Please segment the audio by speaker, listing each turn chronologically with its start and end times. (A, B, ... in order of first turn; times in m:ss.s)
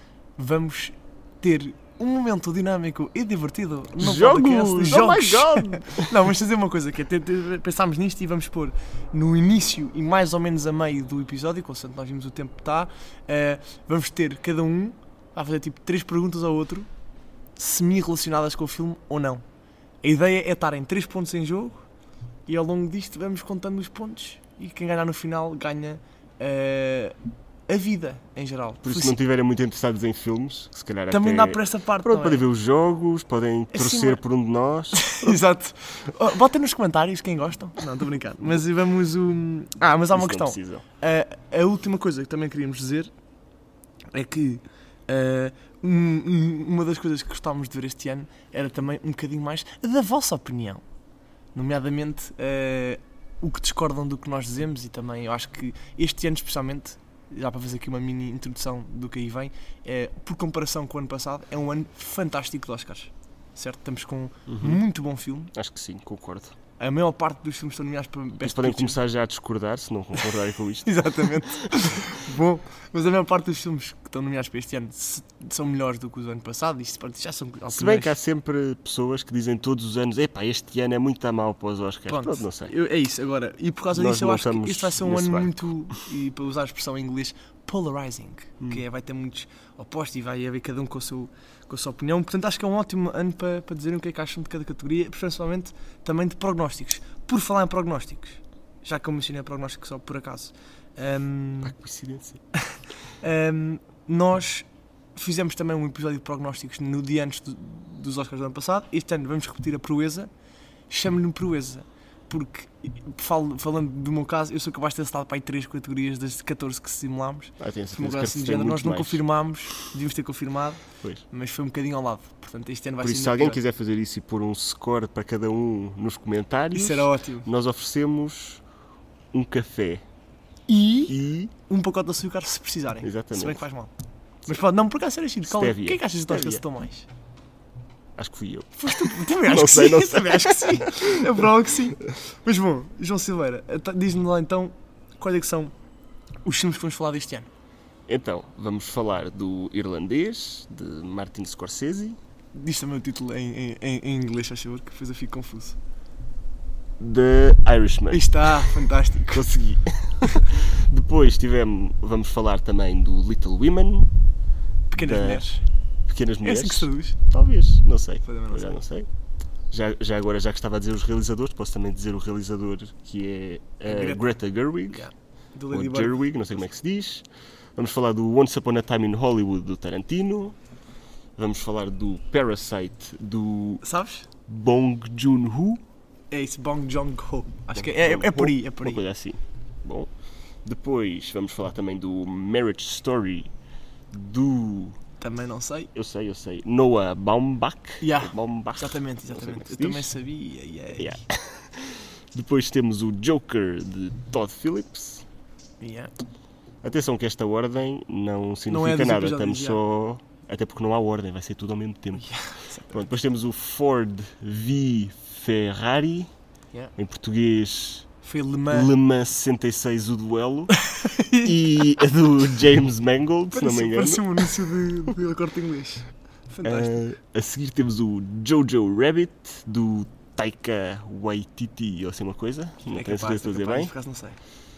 0:00.4-0:16.9 A
0:04.0-0:06.1 B
0:17.6-0:19.4 A
0:20.0-0:21.8 A
0:22.5-0:27.2 A
0:27.7-0:29.2 A
0:28.8-0:35.4 B
0:31.1-0:32.4 A
0:33.7-0:34.2 A
0:34.9-0:43.1 A
0:40.1-0:40.8 B
0:44.1-0:50.8 A
0:51.5-1:05.5 A
1:04.5-1:04.8 B
1:05.5-1:06.5 B
1:06.8-1:09.0 A
1:08.4-1:11.5 B
1:10.8-1:18.2 A
1:17.7-1:22.7 B
1:22.1-1:41.7 A
1:23.9-1:25.7 B
1:41.6-1:42.4 B
1:43.2-1:50.3 A
1:50.9-2:03.6 A
1:57.6-1:59.2 B
2:03.0-2:08.6 B
2:06.7-2:07.5 A
2:09.3-2:10.0 B
2:10.7-2:11.2 A
2:11.1-2:11.5 B
2:11.7-2:13.9 A
2:13.0-2:13.6 B
2:14.4-2:17.1 A
2:15.4-2:16.6 B
2:18.2-2:21.1 B
2:18.8-2:25.7 A
2:26.4-2:27.5 A
2:28.1-2:32.2 B
2:32.5-2:35.8 A
2:37.0-2:44.1 B
2:38.1-2:39.5 A
2:44.9-2:45.6 A
2:45.0-2:45.5 B
2:46.1-2:49.1 B
2:46.4-2:47.2 A
2:48.2-2:48.8 A
2:49.7-2:55.0 B
2:53.8-2:56.2 A
2:55.7-3:00.6 B
3:01.4-3:03.8 B
3:03.8-3:04.3 A
3:04.5-3:05.8 B
3:06.3-3:09.0 A
3:07.7-3:10.1 B
3:10.6-3:13.5 B
3:14.1-3:15.0 B
3:15.2-3:15.9 A
3:15.9-3:20.1 B
3:18.0-3:21.2 A
3:21.0-3:25.2 B
3:25.8-3:26.1 A
3:26.8-3:36.3 B
3:28.7-3:29.8 A
3:32.2-3:33.0 A
3:37.0-3:38.1 B
3:38.2-3:38.9 A
3:38.7-3:40.8 B
3:40.7-3:41.9 A
3:41.4-3:44.9 B
3:43.5-3:47.0 A
3:46.6-3:53.9 B
3:52.8-3:54.4 A